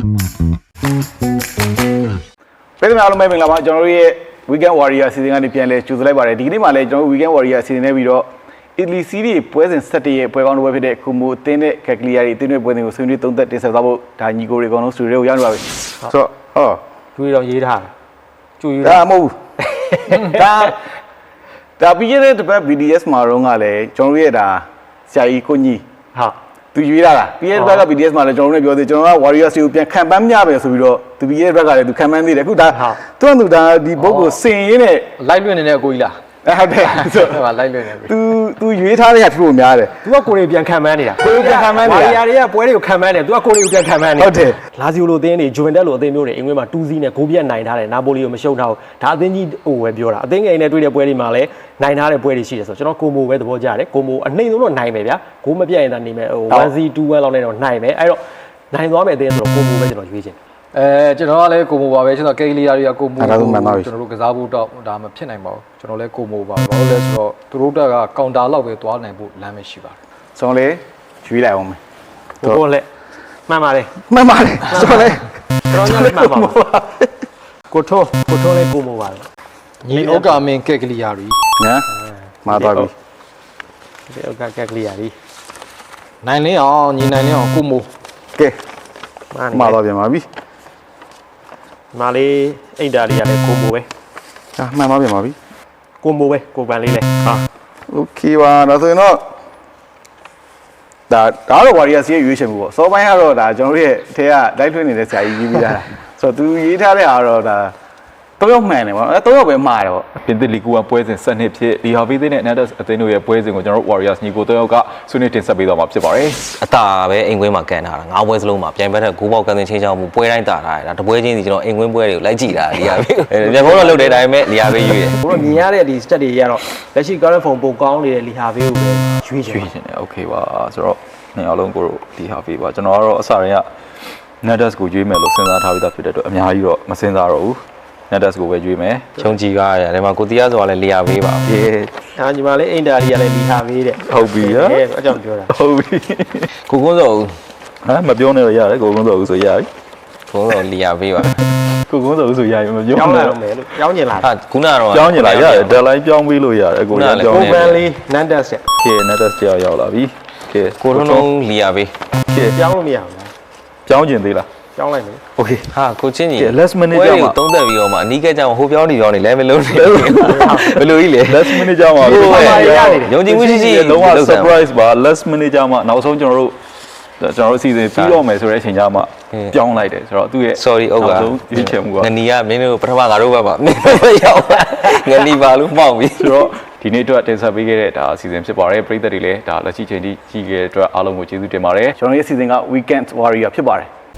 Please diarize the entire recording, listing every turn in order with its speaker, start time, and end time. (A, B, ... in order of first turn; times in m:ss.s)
0:02.8-0:16.8 A
0:17.2-0:17.9 B
0:18.6-0:19.0 B
0:18.8-0:19.3 A
0:19.6-0:20.4 B
0:20.1-0:20.8 A
0:21.8-0:25.8 A
0:26.7-0:35.1 A
0:27.5-0:27.8 B
0:32.7-0:33.0 B
0:34.0-0:34.4 C
0:35.2-0:36.2 C
0:36.4-0:37.4 A
0:36.8-0:38.1 C
0:38.0-0:40.0 A
0:40.0-0:58.2 B
0:41.2-0:42.2 A
0:44.2-0:44.6 A
0:58.7-1:00.4 B
1:00.7-1:10.0 C
1:03.2-1:03.9 A
1:10.3-1:11.8 A
1:12.4-1:12.9 B
1:13.5-1:13.9 B
1:14.1-1:17.0 A
1:14.7-1:16.7 B
1:17.7-1:19.2 B
1:19.8-1:21.4 C
1:19.9-1:20.4 B
1:21.6-1:21.8 A
1:21.9-1:22.9 B
1:22.4-1:22.9 A
1:24.1-1:25.1 B
1:26.2-1:27.9 C
1:29.3-1:29.8 B
1:29.5-1:30.3 A
1:31.9-1:33.9 B
1:34.6-1:35.4 A
1:36.0-1:37.4 B
1:37.9-1:39.3 A
1:41.1-1:47.7 A
1:48.4-1:50.1 A
1:50.2-1:56.4 D
1:56.5-2:05.2 E
2:03.4-2:04.2 B
2:05.2-2:09.7 B
2:09.4-2:13.7 D
2:14.4-2:19.2 D
2:19.2-2:21.5 E
2:21.4-2:21.9 D
2:22.2-2:25.5 B
2:24.0-2:24.8 D
2:25.5-2:26.5 D
2:26.7-2:27.3 E
2:27.8-2:29.7 D
2:30.3-2:31.4 E
2:31.2-2:33.4 D
2:32.9-2:34.3 B
2:34.2-2:35.8 E
2:34.9-2:37.8 D
2:36.9-2:37.8 E
2:37.3-2:38.6 B
2:38.8-2:41.3 D
2:40.8-2:41.9 E
2:42.3-2:42.6 D
2:42.5-2:43.3 B
2:43.8-2:44.5 D
2:44.8-2:45.2 B
2:45.4-2:45.7 D
2:45.7-2:54.6 E
2:46.4-2:47.4 D
2:49.6-2:56.6 D
2:50.2-2:50.7 B
2:52.0-2:53.2 B
2:57.2-3:02.1 D
3:00.5-3:06.5 E
3:06.2-3:12.0 D
3:12.0-3:13.9 A